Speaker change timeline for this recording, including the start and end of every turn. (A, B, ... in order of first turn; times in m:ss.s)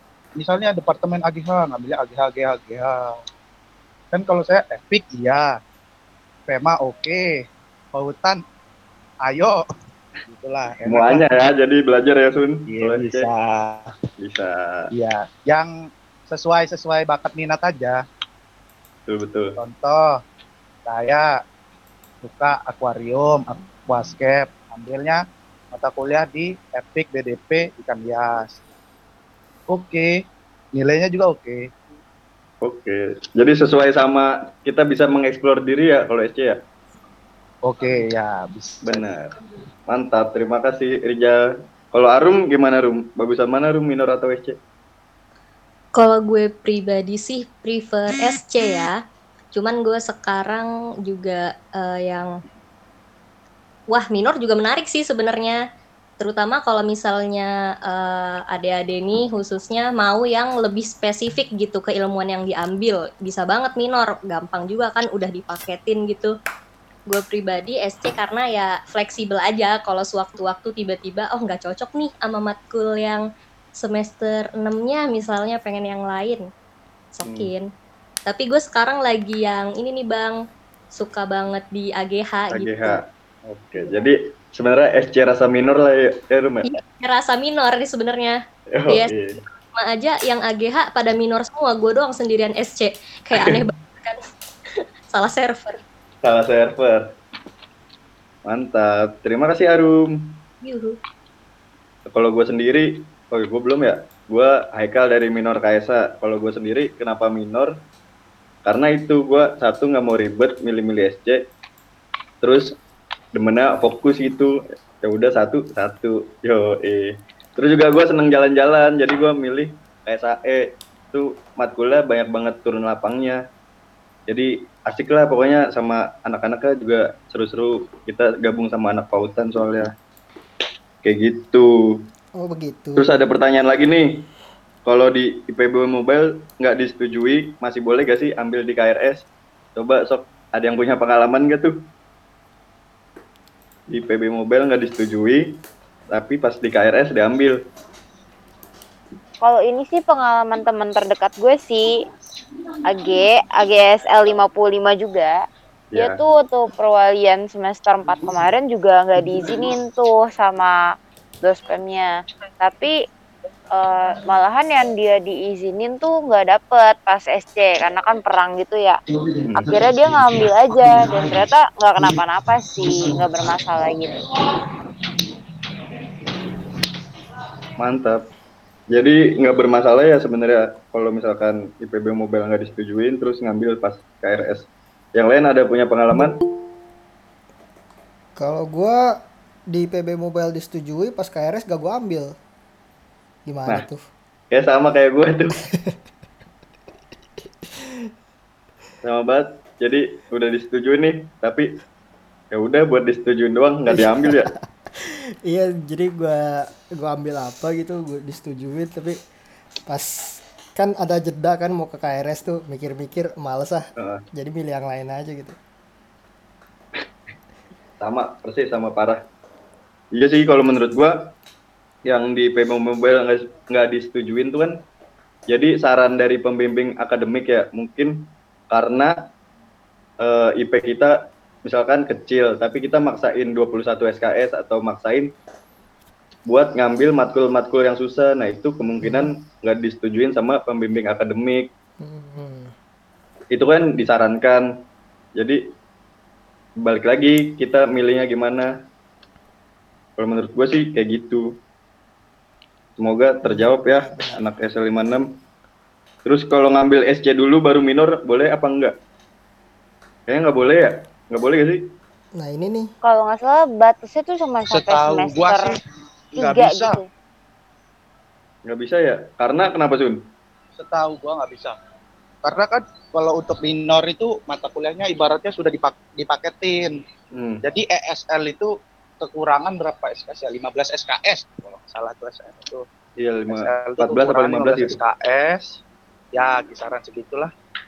0:00.4-0:03.2 A
0:04.1-0:05.5 A
0:06.5-0:07.3 A
0:07.9-0:08.4 A
0:09.2-0:09.6 A
0:10.2-0:11.3 A
0:10.9-0:13.3 B
0:12.7-0:13.9 A
0:14.2-0:14.9 B
0:14.9-0:15.7 A
0:16.3-0:18.0 A
0:19.1-0:19.6 B
0:19.6-0:20.0 A
0:20.8-0:21.3 A
0:22.2-0:28.6 A
0:29.7-0:30.1 A
0:30.7-0:31.6 A
0:32.6-0:36.6 B
0:37.6-0:39.3 A
0:38.8-0:39.3 B
0:39.9-0:41.4 B
0:41.9-0:44.6 B
0:45.9-0:49.0 C
0:49.5-0:52.4 C
0:53.9-0:55.6 C
0:56.2-1:06.3 C
1:07.1-1:13.2 C
1:13.8-1:16.5 C
1:17.1-1:17.7 C
1:17.2-1:17.5 B
1:18.2-1:20.4 C
1:20.9-1:23.0 C
1:22.5-1:26.7 B
1:26.6-1:29.1 C
1:28.7-1:29.4 B
1:29.7-1:34.2 C
1:33.3-1:33.6 B
1:35.1-1:35.8 C
1:36.2-1:37.1 B
1:38.4-1:40.3 B
1:40.6-1:41.0 C
1:42.1-1:47.7 B
1:48.6-1:51.4 B
1:52.4-1:52.7 B
1:53.3-2:03.4 B
2:04.3-2:09.9 B
2:11.0-2:11.9 B
2:12.4-2:13.1 D
2:13.0-2:14.2 B
2:14.8-2:21.8 B
2:23.9-2:25.5 B
2:26.1-2:27.6 B
2:29.4-2:32.0 E
2:32.8-2:35.4 E
2:35.9-2:36.2 B
2:35.9-2:40.8 E
2:41.4-2:43.0 E
2:43.7-2:49.0 E
2:49.4-2:49.8 B
2:49.5-2:54.2 E
2:57.8-2:58.2 B
2:58.9-3:06.4 B
3:08.4-3:09.2 D
3:09.7-3:12.4 D
3:13.5-3:14.0 D
3:14.5-3:15.6 B
3:15.7-3:16.0 D
3:17.7-3:18.1 D
3:19.0-3:21.7 B
3:22.5-3:24.5 B
3:23.9-3:29.2 D
3:29.9-3:35.6 D
3:34.0-3:34.2 B
3:38.0-3:39.2 B
3:40.1-3:41.3 B
3:42.1-3:44.8 B
3:45.5-3:49.2 B
3:50.2-3:55.3 B
3:56.4-4:01.7 B
3:59.0-3:59.3 D
4:02.0-4:02.7 D
4:03.5-4:04.7 B
4:05.4-4:05.6 B
4:06.8-4:08.7 B
4:10.2-4:11.5 B
4:13.0-4:15.3 B
4:13.4-4:14.4 D
4:16.2-4:18.9 B
4:20.3-4:21.8 B
4:22.4-4:22.9 D
4:23.0-4:25.7 E
4:24.7-4:25.8 A
4:26.3-4:27.0 A
4:26.4-4:27.1 E
4:28.7-4:30.2 B
4:30.8-4:31.8 A
4:32.4-4:37.0 A
4:37.3-4:37.6 B
4:37.6-4:42.8 A
4:43.2-4:45.0 B
4:43.5-4:45.8 A
4:46.3-4:47.5 A